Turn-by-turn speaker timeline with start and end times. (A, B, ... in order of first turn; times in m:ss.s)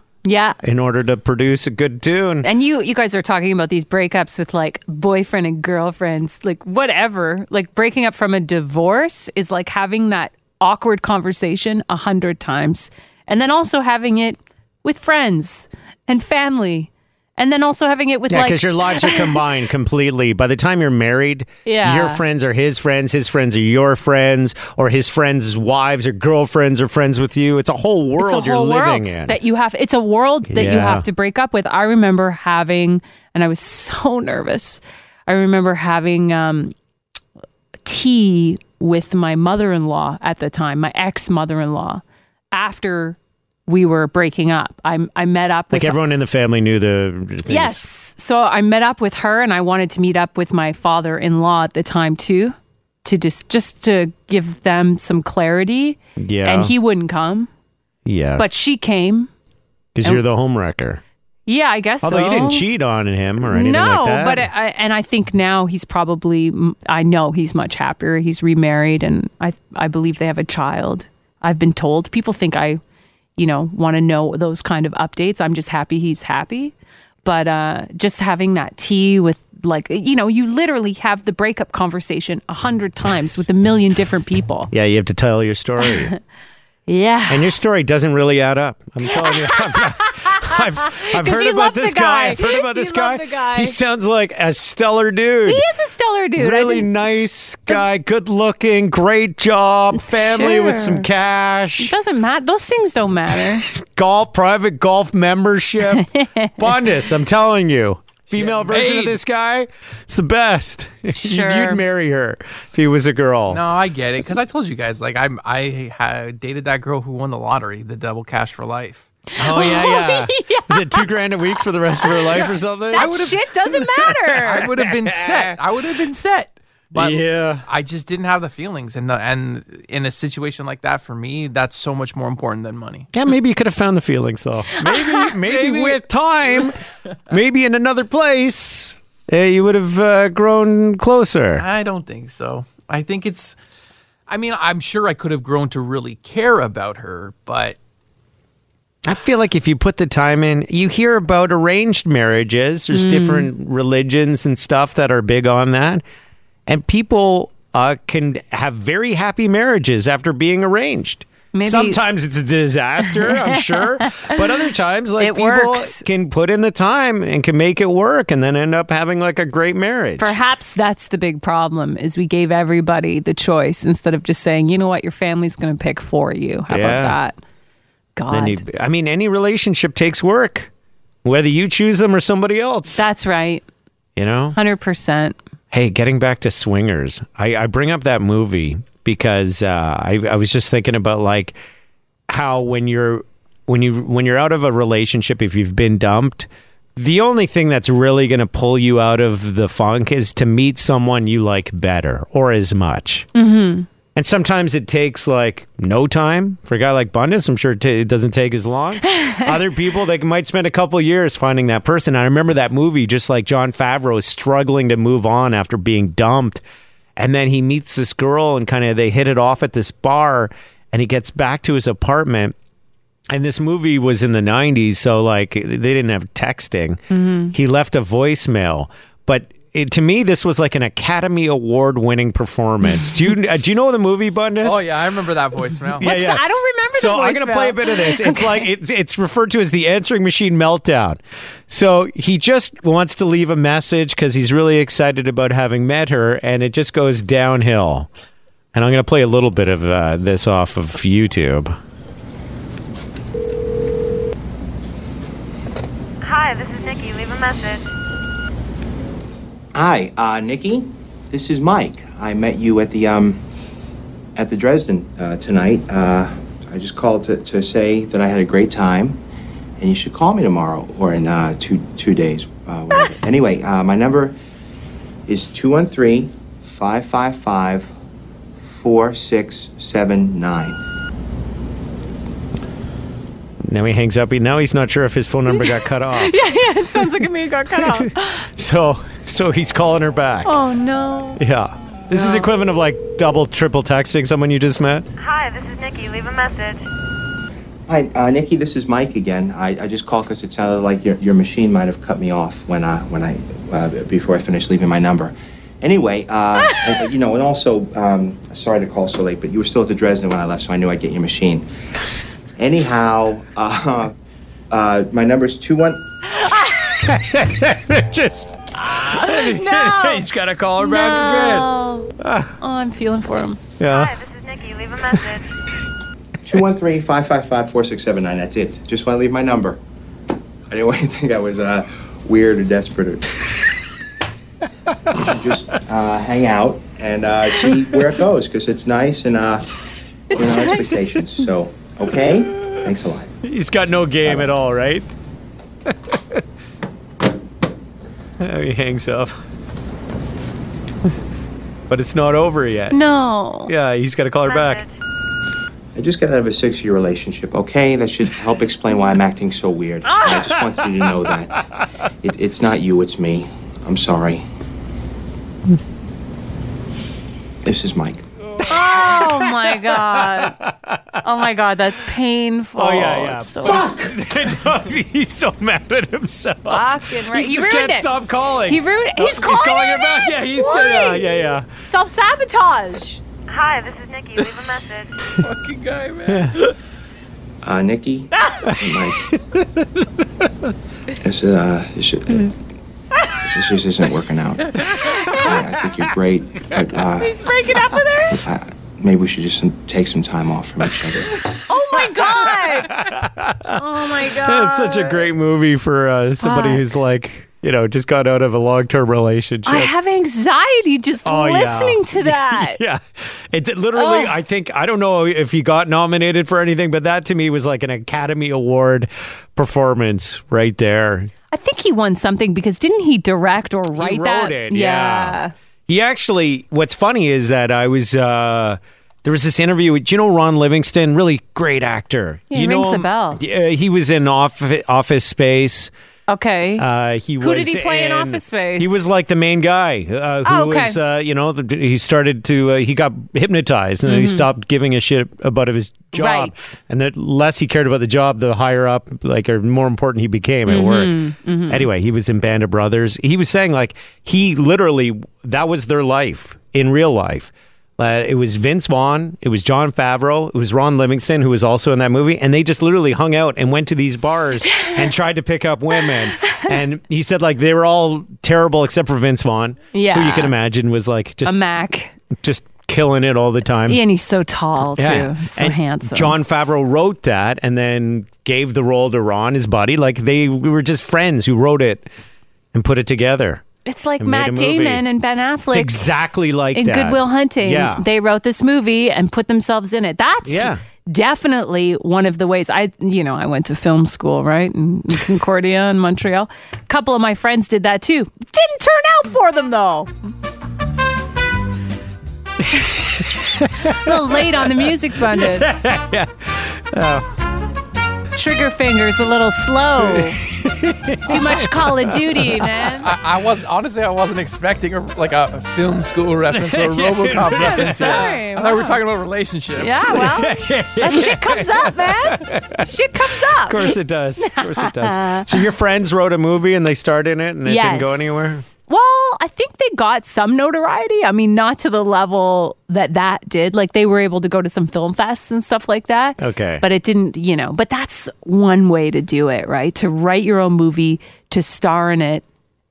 0:00.2-0:00.6 A
0:00.6-0:02.5 B
0:02.4-0:19.4 A
0:18.3-0:29.4 B
0:21.6-0:22.2 A
0:28.2-0:36.7 A
0:30.4-0:31.0 B
0:37.8-0:46.0 A
0:45.7-0:47.8 B
0:47.4-0:57.5 A
0:56.2-0:56.7 B
0:58.0-0:58.4 B
0:58.4-0:59.3 A
0:59.9-1:01.0 B
1:01.5-1:02.6 A
1:02.0-1:04.5 B
1:03.4-1:12.8 A
1:13.4-1:24.7 A
1:24.7-1:26.1 B
1:26.9-1:27.5 A
1:27.3-1:35.6 B
1:29.1-1:33.8 A
1:35.4-1:36.9 A
1:36.4-1:41.9 B
1:39.9-1:41.1 A
1:41.8-1:43.7 A
1:43.7-1:53.6 B
1:45.9-1:46.5 A
1:48.3-1:49.2 C
1:51.2-1:51.8 A
1:53.5-1:59.1 C
1:59.4-2:05.6 B
1:59.5-2:01.0 A
2:02.3-2:03.4 C
2:02.9-2:04.7 A
2:04.4-2:13.1 C
2:06.9-2:07.6 B
2:13.1-2:16.8 B
2:15.4-2:16.0 C
2:17.3-2:21.6 B
2:21.6-2:23.6 C
2:24.3-2:27.8 C
2:29.0-2:36.0 B
2:32.9-2:33.5 A
2:36.7-2:50.3 B
2:41.5-2:42.0 A
2:43.1-2:44.4 A
2:45.2-2:46.0 A
2:50.2-2:57.4 A
2:56.7-2:57.2 B
2:58.2-2:58.6 A
2:58.3-3:00.7 B
3:01.2-3:03.0 B
3:02.9-3:03.6 A
3:04.2-3:04.6 B
3:04.5-3:05.4 A
3:05.7-3:11.6 B
3:12.3-3:23.3 B
3:23.3-3:23.9 A
3:24.1-3:36.6 B
3:29.1-3:29.4 A
3:37.2-3:42.5 B
3:43.3-3:54.8 B
3:47.1-3:47.5 A
3:54.6-3:56.1 C
3:56.0-4:08.1 B
3:56.0-3:58.7 A
4:08.7-4:11.8 B
4:16.2-4:17.8 D
4:19.7-4:23.4 E
4:24.4-4:29.2 E
4:29.8-4:34.3 E
4:35.3-4:37.9 E
4:38.6-4:40.8 E
4:43.6-4:46.4 B
4:45.5-4:48.4 A
4:47.7-4:50.6 B
4:50.4-4:51.4 A
4:51.4-4:55.1 B
4:52.1-4:52.5 A
4:55.2-4:56.8 D
4:57.9-5:11.6 E
5:12.6-5:14.1 E
5:14.7-5:16.0 E
5:16.4-5:16.7 A
5:16.6-5:22.5 B
5:18.7-5:20.2 A
5:20.8-5:23.6 A
5:23.8-5:24.1 B
5:23.8-5:25.5 D
5:26.4-5:29.8 E
5:30.7-5:33.5 E
5:35.1-5:39.7 E
5:40.3-5:43.3 E
5:40.3-5:41.0 A
5:43.4-5:45.1 B
5:44.2-5:44.5 E
5:45.8-5:46.4 B
5:48.4-5:49.4 B
5:51.9-5:53.0 B
5:52.9-5:53.7 A
5:53.7-5:54.8 B
5:54.4-5:54.9 D
5:56.0-6:01.6 E
6:02.2-6:04.4 E
6:07.6-6:08.2 E
6:08.6-6:10.6 A
6:08.6-6:11.2 B
6:11.2-6:13.8 A
6:12.8-6:21.6 B
6:13.8-6:14.1 E
6:16.7-6:18.1 A
6:18.6-6:23.2 A
6:23.5-6:25.3 D
6:25.3-6:26.7 C
6:26.3-6:26.6 B
6:27.6-6:29.3 E
6:28.6-6:30.0 B
6:31.2-6:32.5 E
6:33.4-6:37.4 E
6:35.0-6:35.4 B
6:35.0-6:35.4 A
6:37.1-6:38.4 A
6:38.3-6:41.4 E
6:41.7-6:43.0 A
6:41.9-6:49.9 B
6:43.7-6:45.2 A
6:46.4-6:46.9 A
6:49.6-6:52.8 A
6:51.2-7:01.3 B
6:53.9-6:54.3 A
7:01.5-7:05.5 A
7:03.9-7:15.9 B
7:12.5-7:13.4 A
7:16.3-7:16.8 A
7:16.8-7:51.6 B
7:17.4-7:18.9 A
7:20.4-7:21.0 A
7:24.0-7:24.4 A
7:26.1-7:26.8 A
7:30.7-7:31.8 A
7:46.4-7:46.7 A
7:49.9-7:50.5 A
7:51.4-7:52.1 A
7:52.4-7:54.0 B
7:53.8-7:56.4 A
7:55.0-8:02.1 B
8:02.7-8:03.6 B
8:03.8-8:06.0 A
8:04.2-8:05.0 B
8:05.7-8:08.0 B
8:06.7-8:20.1 A
8:10.4-8:10.8 B
8:22.7-8:27.3 B
8:23.8-8:25.7 A
8:28.3-8:30.4 A
8:30.0-8:32.9 B
8:31.2-8:33.1 A
8:33.0-8:40.2 C
8:36.5-8:38.4 B
8:37.4-8:38.9 A
8:39.8-8:45.5 A
8:40.1-8:42.9 B
8:43.6-8:48.6 B
8:47.6-9:02.4 A
8:56.4-8:56.8 B